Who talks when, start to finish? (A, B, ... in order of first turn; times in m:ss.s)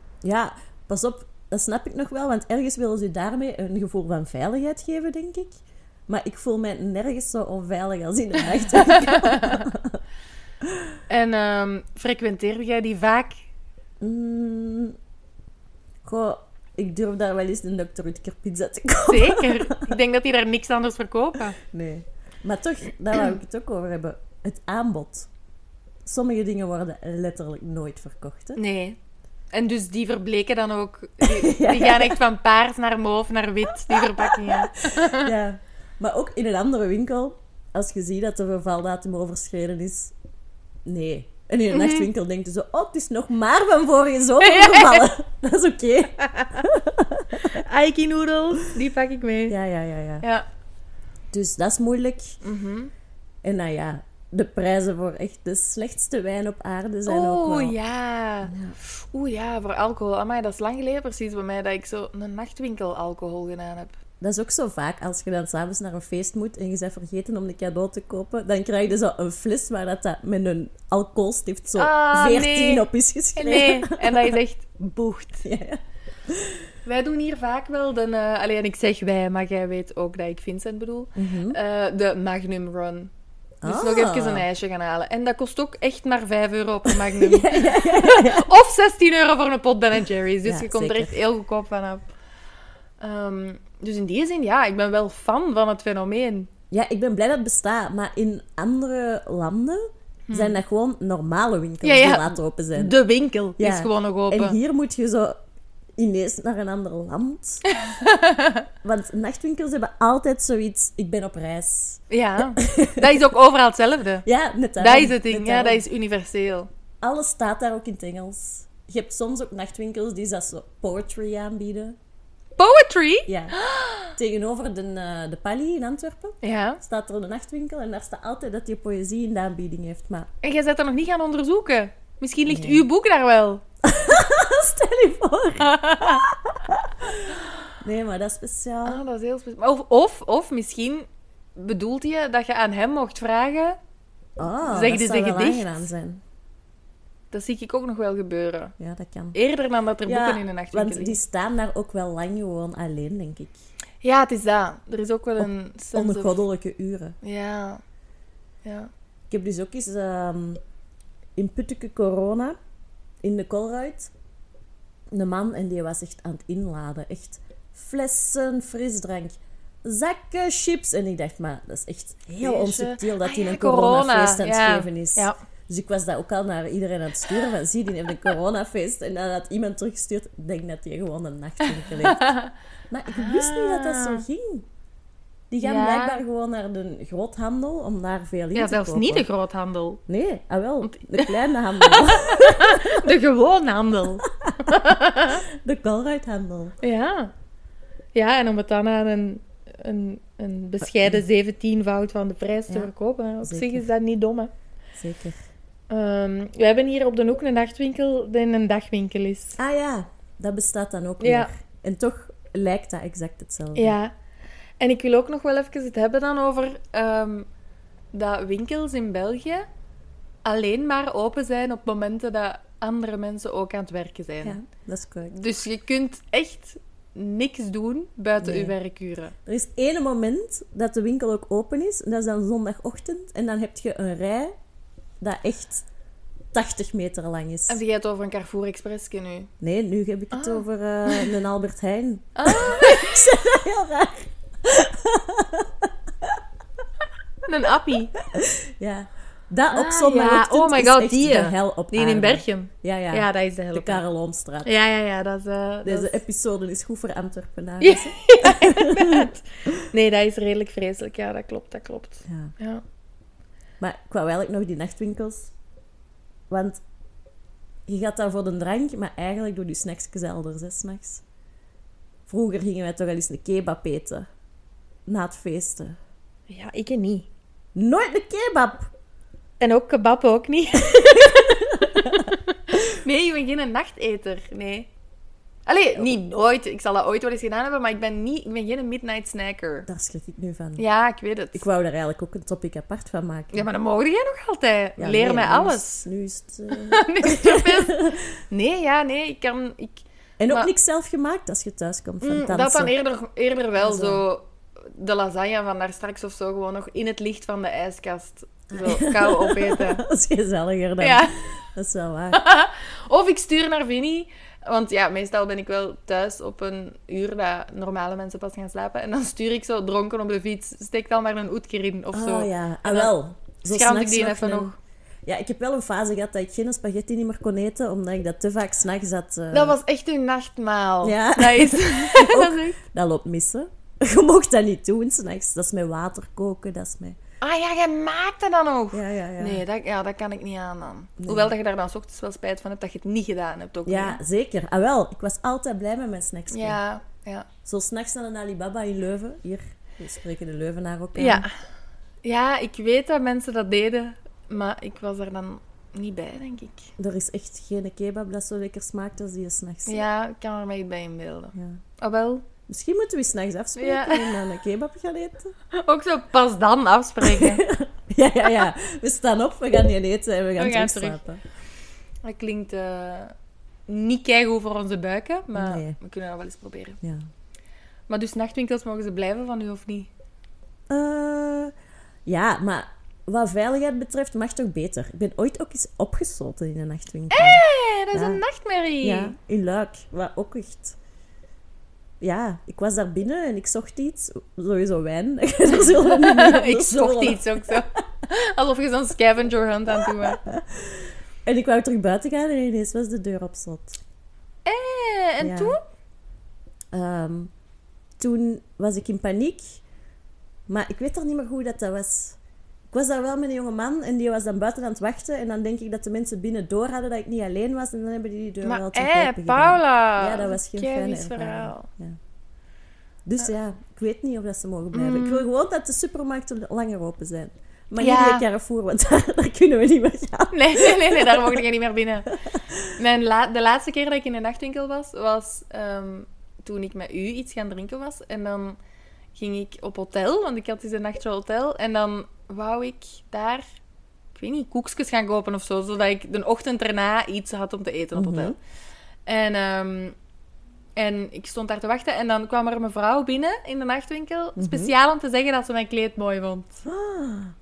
0:00.2-0:10.0 A
0:08.8-0:09.6 B
0:10.6-0:10.9 A
0:11.1-0:13.4 B
0:14.0-0:15.0 A
0:16.0-0:19.9 A
0:19.0-0:21.6 B
0:21.6-0:25.3 A
0:26.0-0:28.6 A
0:28.6-0:29.0 B
0:29.5-0:35.3 B
0:31.2-0:32.2 A
0:33.8-0:40.1 A
0:40.8-0:47.6 A
0:41.7-0:42.1 B
0:44.4-0:45.1 B
0:46.2-0:46.6 B
0:47.4-0:49.6 B
0:49.5-0:50.2 A
0:51.3-0:52.4 A
0:52.4-0:52.9 B
0:53.4-0:57.7 A
0:57.0-1:04.0 B
0:58.4-0:58.8 A
1:04.2-1:14.4 A
1:11.8-1:15.4 B
1:15.4-1:16.6 A
1:16.8-1:23.1 B
1:21.1-1:21.6 A
1:23.6-1:24.5 A
1:23.6-1:32.0 B
1:26.9-1:28.5 A
1:30.4-1:31.2 A
1:33.0-1:36.5 B
1:36.7-1:43.0 A
1:40.3-1:40.6 B
1:41.8-1:44.6 B
1:43.6-1:45.4 A
1:46.0-1:47.6 A
1:47.7-1:48.6 B
1:48.8-1:52.0 A
1:52.1-1:54.2 B
1:52.6-1:53.2 A
1:54.2-1:55.8 A
1:54.8-1:56.7 B
1:57.0-2:02.0 A
2:02.6-2:04.1 B
2:03.3-2:03.5 A
2:04.1-2:10.3 A
2:06.4-2:06.8 B
2:10.4-2:13.6 B
2:12.5-2:12.8 A
2:13.8-2:19.0 A
2:15.6-2:16.3 B
2:18.8-2:23.8 B
2:24.4-2:26.2 A
2:24.7-2:25.8 B
2:27.3-2:28.7 B
2:28.8-2:29.4 A
2:29.3-2:31.2 B
2:30.0-2:33.5 A
2:34.0-2:36.4 B
2:35.4-2:37.2 A
2:37.2-2:37.8 B
2:38.6-2:38.9 B
2:39.3-2:40.6 A
2:41.4-2:42.6 A
2:43.2-2:44.1 A
2:45.1-3:02.3 A
2:52.4-2:55.4 B
3:01.7-3:02.5 B
3:02.9-3:04.7 A
3:03.1-3:04.2 B
3:05.5-3:09.3 A
3:05.6-3:06.2 B
3:08.5-3:10.0 B
3:10.1-3:13.1 A
3:10.9-3:15.4 B
3:14.2-3:14.8 A
3:15.4-3:16.8 A
3:16.8-3:17.3 B
3:18.1-3:24.5 B
3:20.8-3:21.2 A
3:22.7-3:23.9 A
3:25.0-3:25.4 A
3:25.9-3:29.6 B
3:29.6-3:34.0 A
3:31.2-3:31.5 B
3:33.8-3:34.1 B
3:34.8-3:37.5 B
3:38.1-3:39.6 B
3:40.4-3:44.6 B
3:44.4-3:45.4 A
3:45.3-3:49.3 B
3:48.4-3:48.7 A
3:49.4-3:54.5 A
3:55.2-3:55.8 A
3:56.5-3:57.8 A
3:57.7-3:59.5 B
3:59.6-4:06.4 A
4:00.3-4:01.3 B
4:02.4-4:03.3 B
4:07.4-4:08.1 B
4:08.2-4:14.7 A
4:09.7-4:14.0 B
4:14.6-4:16.2 B
4:15.8-4:19.8 A
4:17.8-4:22.8 B
4:22.3-4:22.5 A
4:23.8-4:25.5 A
4:26.5-4:26.8 A
4:27.8-4:31.2 A
4:32.3-4:34.3 A
4:35.0-4:36.0 A
4:36.5-4:37.3 B
4:37.7-4:38.9 A
4:39.6-4:44.9 B
4:41.3-4:42.3 A
4:45.7-4:49.9 B
4:49.9-4:50.8 A
4:50.8-4:51.6 B
4:51.5-4:53.7 A
4:53.5-4:56.0 B
4:55.0-4:58.2 A
4:56.7-5:00.7 B
5:00.4-5:02.9 A
5:02.2-5:10.0 B
5:03.8-5:04.2 A
5:08.7-5:12.4 A
5:11.0-5:11.3 B
5:12.3-5:23.1 B
5:22.1-5:24.7 A
5:23.7-5:24.8 B
5:25.2-5:29.8 A
5:29.5-5:32.8 B
5:31.0-5:37.2 A
5:37.4-5:44.2 B
5:38.9-5:39.6 A
5:41.2-5:41.5 A
5:43.8-5:46.8 A
5:46.5-5:47.5 B
5:47.6-5:51.4 A
5:51.2-5:51.5 B
5:52.2-5:56.9 B
5:57.0-6:00.0 A
5:59.8-6:02.4 B
6:01.5-6:01.8 A
6:02.7-6:05.5 A
6:03.8-6:04.4 B
6:05.7-6:07.6 B
6:07.2-6:11.4 A
6:10.6-6:11.2 B
6:12.2-6:13.3 B
6:13.9-6:17.0 B
6:15.5-6:16.0 A
6:17.0-6:17.3 A
6:18.1-6:20.1 B
6:20.9-6:21.7 A
6:22.2-6:27.6 A
6:27.3-6:29.3 B
6:28.1-6:28.4 A
6:29.0-6:31.0 A
6:32.2-6:37.8 A
6:35.9-6:40.4 B
6:40.0-6:44.0 A
6:44.6-6:45.8 B
6:45.4-6:45.8 A
6:46.9-6:47.5 A
6:48.2-6:49.8 A
6:50.7-6:52.4 A
6:52.9-7:02.2 A
6:58.6-7:01.9 B
7:03.2-7:11.6 A
7:04.9-7:05.5 B
7:08.0-7:08.4 B
7:10.5-7:12.3 B
7:12.4-7:12.9 A
7:13.0-7:18.8 B
7:19.3-7:23.6 B
7:24.3-7:28.5 B
7:28.1-7:28.5 A
7:29.2-7:30.2 B
7:31.0-7:36.8 B
7:34.6-7:34.9 A
7:36.8-7:37.5 A